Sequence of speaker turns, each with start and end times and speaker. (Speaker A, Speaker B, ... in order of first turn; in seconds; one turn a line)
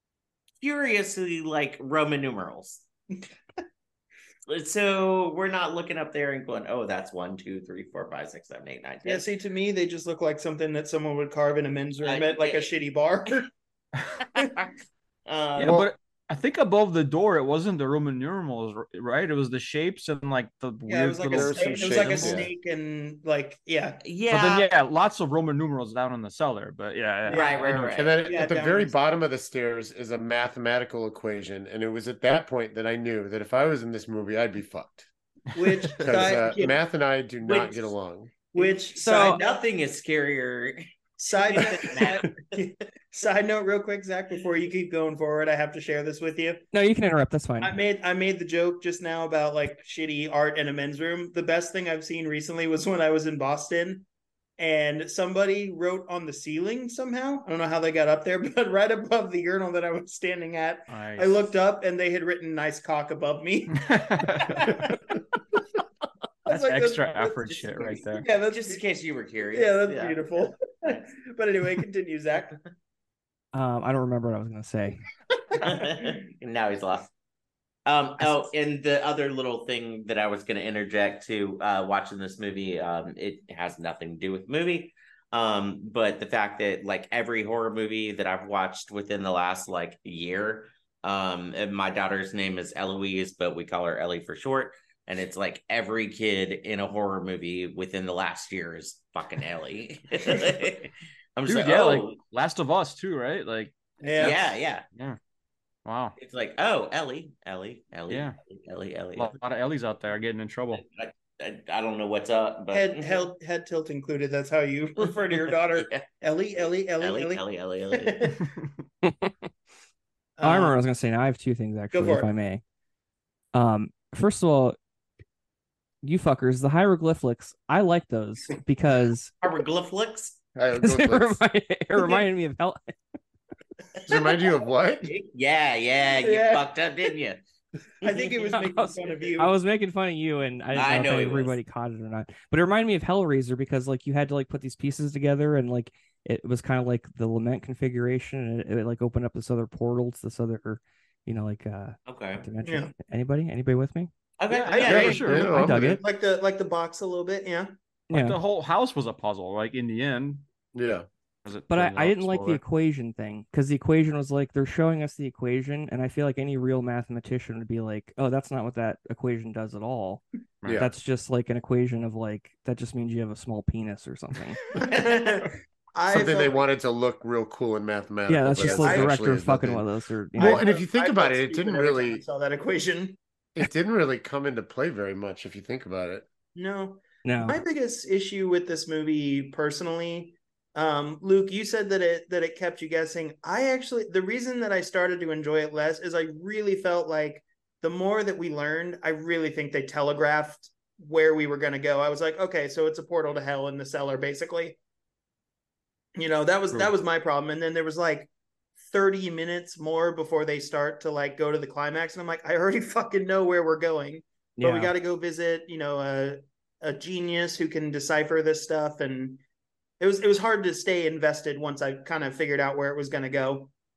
Speaker A: 0.6-2.9
Speaker A: 4.5-9.2
Speaker B: 9.0-13.5
Speaker A: 12.0-12.7
Speaker A: 14.4-14.7
Speaker A: 15.3-15.8
Speaker C: 15.6-22.5
Speaker D: 15.6-15.9
Speaker B: 20.9-24.0
Speaker D: 21.3-22.5
Speaker A: 24.0-24.7
Speaker C: 24.3-28.1
Speaker B: 27.3-27.6
Speaker A: 27.3-28.3
Speaker D: 27.9-35.1
Speaker B: 28.3-28.9
Speaker B: 35.5-36.8
Speaker D: 36.0-38.3
Speaker B: 37.4-37.9
Speaker B: 38.5-39.7
Speaker A: 38.6-42.7
Speaker E: 39.0-39.4
Speaker B: 41.2-46.6
Speaker E: 46.7-47.8
Speaker B: 47.6-54.0
Speaker B: 54.6-65.1
Speaker C: 60.9-61.4
Speaker C: 63.7-64.8
Speaker B: 66.5-68.8
Speaker C: 66.5-68.2
Speaker A: 68.2-71.0
Speaker B: 69.5-72.6
Speaker E: 73.5-75.0
Speaker B: 75.5-75.8
Speaker A: 75.6-77.1
Speaker A: 77.9-102.2
Speaker C: 101.5-105.2
Speaker B: 104.0-104.4
Speaker A: 104.2-104.8
Speaker C: 105.8-106.2
Speaker A: 106.2-109.3
Speaker C: 108.1-108.4
Speaker C: 109.2-110.8
Speaker A: 110.8-113.3
Speaker B: 112.7-118.4
Speaker A: 115.0-116.0
Speaker A: 117.0-118.3
Speaker C: 118.4-118.8
Speaker E: 119.0-119.5
Speaker B: 120.4-120.8
Speaker E: 120.4-122.6
Speaker B: 121.9-122.3
Speaker E: 123.5-124.8
Speaker E: 126.0-129.3
Speaker A: 129.4-130.4
Speaker D: 130.6-131.4
Speaker E: 130.8-133.0
Speaker B: 132.0-132.2
Speaker D: 134.1-135.1
Speaker A: 135.0-137.4
Speaker B: 136.2-136.7
Speaker A: 138.0-138.4
Speaker B: 138.0-139.5
Speaker E: 138.5-154.1
Speaker A: 140.7-141.6
Speaker A: 152.1-152.5
Speaker B: 152.6-152.9
Speaker A: 154.4-155.3
Speaker C: 154.5-155.5
Speaker B: 154.7-157.7
Speaker D: 154.9-156.0
Speaker E: 155.3-156.0
Speaker E: 158.1-158.4
Speaker C: 158.1-160.4
Speaker D: 160.7-161.1
Speaker C: 161.4-162.6
Speaker E: 161.7-170.2
Speaker D: 170.7-170.9
Speaker E: 170.8-174.6
Speaker B: 174.8-176.6
Speaker A: 175.0-175.3
Speaker D: 176.1-182.2
Speaker E: 178.3-180.7
Speaker B: 178.6-179.2
Speaker B: 180.4-183.2
Speaker D: 183.6-186.2
Speaker B: 186.6-204.8
Speaker E: 187.2-187.6
Speaker B: 206.2-208.3
Speaker B: 208.8-219.4
Speaker E: 214.6-214.9
Speaker B: 220.0-223.7